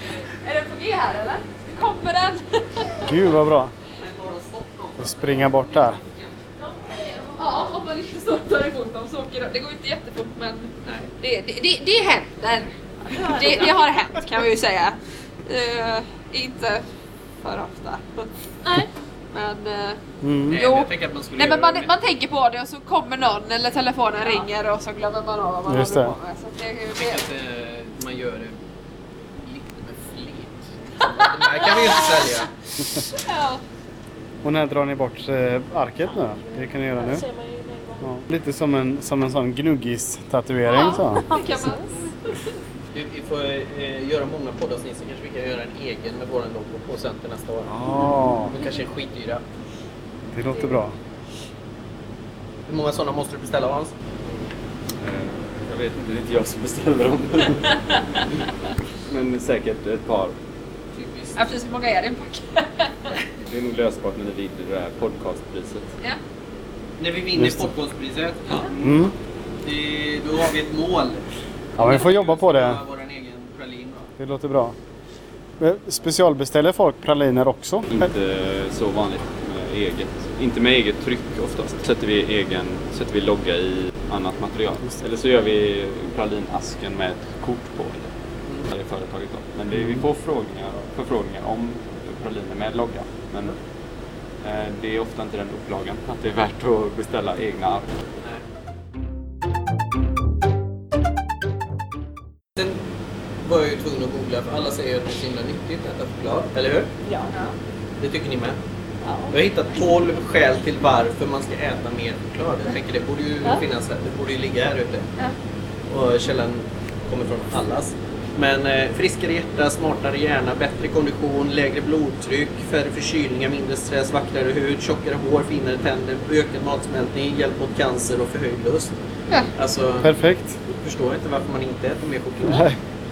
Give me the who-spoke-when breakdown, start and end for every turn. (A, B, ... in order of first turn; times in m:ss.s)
0:00.2-0:03.1 A
0:03.1-0:03.7 B
0:04.0-0:06.3 C
0:05.0-0:06.0 B
0:06.6-0:07.7 D
0:07.3-0:16.8 A
0:10.8-0:11.1 C
0:13.0-0:13.9 D
0:17.4-0:18.3 A
0:18.6-0:18.9 D
0:19.3-0:20.0 A
0:20.2-0:20.6 B
0:20.5-0:21.9 C
0:20.5-0:27.2 A
0:25.7-0:26.1 B
0:27.0-0:28.6 C
0:29.4-0:32.5 C
0:31.0-0:32.3 A
0:33.0-0:33.6 A
0:34.4-0:37.2 B
0:36.4-0:38.2 D
0:38.0-0:41.3 B
0:40.7-0:41.7 D
0:40.7-0:42.2 A
0:42.9-0:47.8 C
0:47.7-0:48.6 B
0:48.5-0:49.4 C
0:50.3-0:50.9 B
0:52.7-0:54.4 C
0:55.0-0:57.8 E
0:59.1-1:00.4 E
1:00.9-1:01.4 C
1:01.4-1:03.2 A
1:03.4-1:05.9 E
1:07.0-1:08.7 C
1:07.4-1:07.7 B
1:08.8-1:09.1 B
1:09.6-1:11.2 C
1:11.8-1:12.8 B
1:11.8-1:14.1 C
1:14.2-1:14.8 B
1:15.6-1:18.1 B
1:17.9-1:28.1 E
1:28.7-1:33.6 E
1:29.7-1:30.0 B
1:34.4-1:37.9 E
1:43.4-1:46.9 C
1:47.0-1:47.3 D
1:47.3-1:47.6 A
1:48.0-1:48.6 C
1:49.0-1:49.4 D
1:49.3-1:55.1 C
1:55.9-2:09.0 C
2:09.6-2:10.1 C
2:10.0-2:10.6 B
2:10.8-2:12.7 C
2:12.4-2:12.8 B